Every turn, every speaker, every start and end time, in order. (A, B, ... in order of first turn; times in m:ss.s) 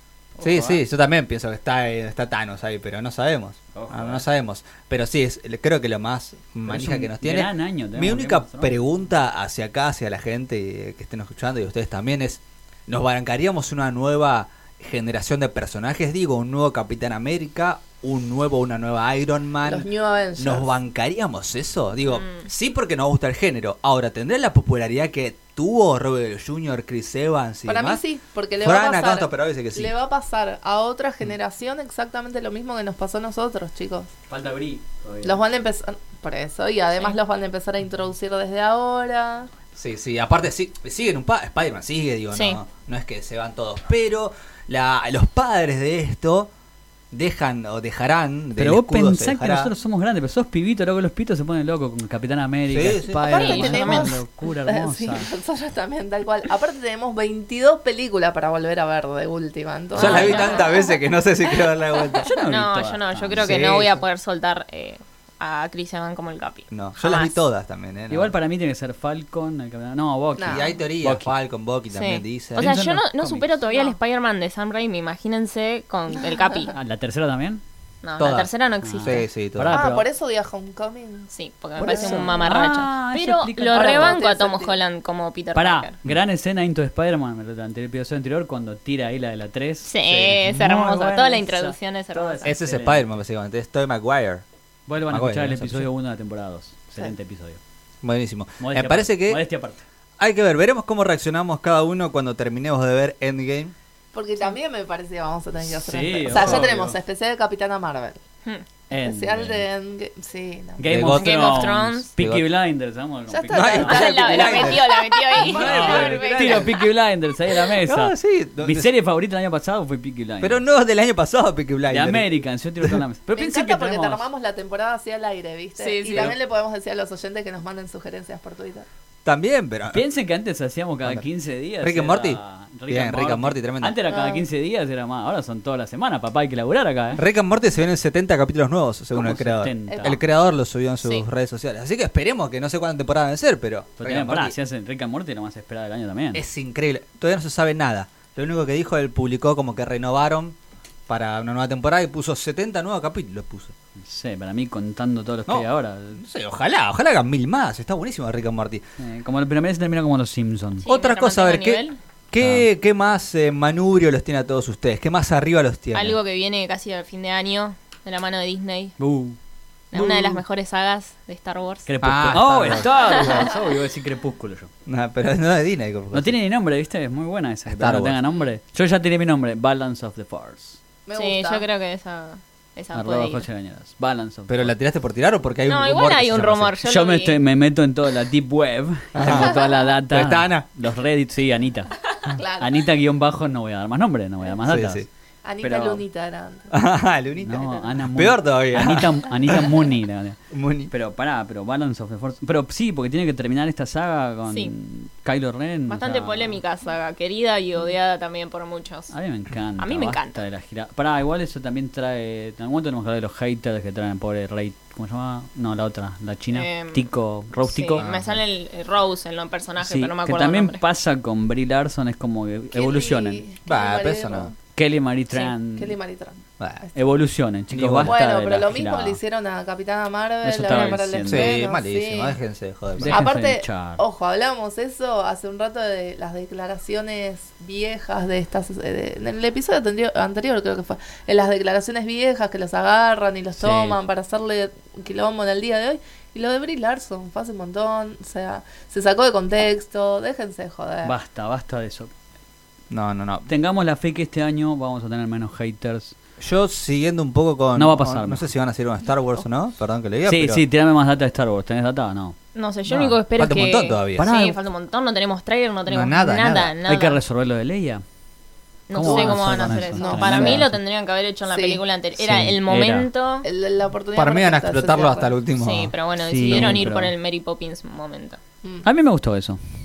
0:00.4-0:00.8 A
0:00.4-0:28.0 B
0:03.7-0:04.2 A
0:06.6-0:08.8 A
0:19.6-0:20.7 C
0:22.1-0:22.4 D
0:27.7-0:34.1 C
0:28.6-0:29.9 B
0:34.3-0:35.4 A
0:35.2-0:39.5 C
0:39.8-0:46.5 B
0:42.3-0:42.6 D
0:47.1-0:49.7 B
0:48.6-0:55.3 A
0:52.7-0:53.3 B
0:53.2-1:01.0 C
0:53.3-0:54.2 D
0:59.9-1:00.8 D
0:59.9-1:02.3 B
1:01.5-1:02.2 C
1:02.2-1:03.6 A
1:02.4-1:07.4 D
1:03.4-1:04.0 B
1:06.7-1:08.3 B
1:08.1-1:11.3 A
1:10.4-1:10.7 C
1:10.4-1:12.8 B
1:11.9-1:16.8 D
1:12.6-1:13.5 A
1:13.7-1:14.0 C
1:16.7-1:17.6 A
1:18.0-1:19.2 D
1:18.2-1:19.8 B
1:18.8-1:20.1 A
1:19.7-1:22.6 C
1:21.3-1:26.0 D
1:21.8-1:24.2 A
1:23.7-1:24.8 C
1:25.6-1:33.1 A
1:29.8-1:32.5 D
1:30.0-1:30.6 B
1:32.4-1:34.4 B
1:34.9-1:37.6 A
1:35.1-1:35.9 B
1:38.0-1:39.4 B
1:38.6-1:39.8 A
1:40.2-1:43.7 B
1:44.1-1:48.2 C
1:45.8-1:47.0 A
1:46.3-1:46.8 B
1:48.9-1:49.6 A
1:48.9-1:50.9 C
1:50.8-1:54.1 A
1:50.8-1:52.4 B
1:51.1-1:52.1 D
1:53.3-1:56.7 C
1:53.5-1:56.7 B
1:53.7-1:56.8 D
1:55.5-2:00.6 A
1:57.8-1:58.9 B
2:00.4-2:02.3 B
2:01.9-2:04.3 A
2:03.4-2:08.9 C
2:05.8-2:06.4 D
2:09.2-2:10.0 B
2:09.9-2:17.2 A
2:11.8-2:14.0 B
2:14.1-2:14.4 C
2:17.1-2:24.6 B
2:19.1-2:20.2 A
2:24.0-2:26.4 A
2:26.3-2:30.6 B
2:31.1-2:33.7 B
2:34.0-2:36.2 A
2:35.5-2:38.8 B
2:39.0-2:40.9 A
2:40.8-2:42.0 D
2:40.9-2:46.2 B
2:42.4-2:42.6 A
2:45.9-2:49.0 D
2:49.0-2:49.4 A
2:49.9-2:51.9 D
2:49.9-2:50.4 B
2:51.9-2:54.7 A
2:52.0-2:53.5 B
2:53.1-2:53.4 D
2:54.9-2:56.4 B
2:56.1-3:00.8 A
2:57.7-2:58.2 B
3:01.1-3:01.6 C
3:01.1-3:03.4 D
3:02.9-3:04.8 A
3:04.5-3:06.8 B
3:05.7-3:07.4 D
3:06.8-3:12.0 A
3:09.1-3:10.6 B
3:12.3-3:12.8 C
3:12.6-3:15.1 A
3:14.6-3:15.1 B
3:15.4-3:16.7 C
3:15.6-3:16.0 A
3:16.7-3:19.9 B
3:17.4-3:20.4 A
3:20.5-3:20.9 B
3:20.9-3:26.6 A
3:25.9-3:29.1 D
3:29.1-3:38.1 A
3:29.8-3:30.4 D
3:36.5-3:37.1 D
3:37.6-3:40.8 D
3:38.0-3:38.4 B
3:39.8-3:43.4 A
3:42.7-3:44.5 C
3:43.6-3:44.5 B
3:44.8-3:46.0 A
3:45.3-3:46.9 C
3:46.6-3:46.8 B
3:46.9-3:49.2 A
3:47.7-3:48.1 B
3:48.0-3:52.4 C
3:50.4-3:51.6 A
3:51.2-3:53.2 B
3:53.0-3:54.0 A
3:53.1-4:11.1 C
4:03.6-4:04.0 A
4:11.0-4:12.1 A
4:12.9-4:13.5 B
4:13.5-4:16.1 A
4:16.4-4:20.6 B
4:17.8-4:18.5 A
4:20.2-4:22.4 A
4:22.6-4:27.2 D
4:22.9-4:23.2 A
4:23.4-4:24.3 B
4:24.2-4:24.6 A
4:25.9-4:26.8 B
4:26.9-4:28.0 A
4:28.9-4:33.5 D
4:28.9-4:30.8 A
4:29.0-4:30.6 C
4:31.5-4:31.8 C
4:32.2-4:33.1 A
4:33.4-4:35.4 C
4:34.1-4:35.9 B
4:35.6-4:38.4 D
4:36.2-4:37.1 A
4:36.5-4:36.9 B
4:38.8-4:39.6 A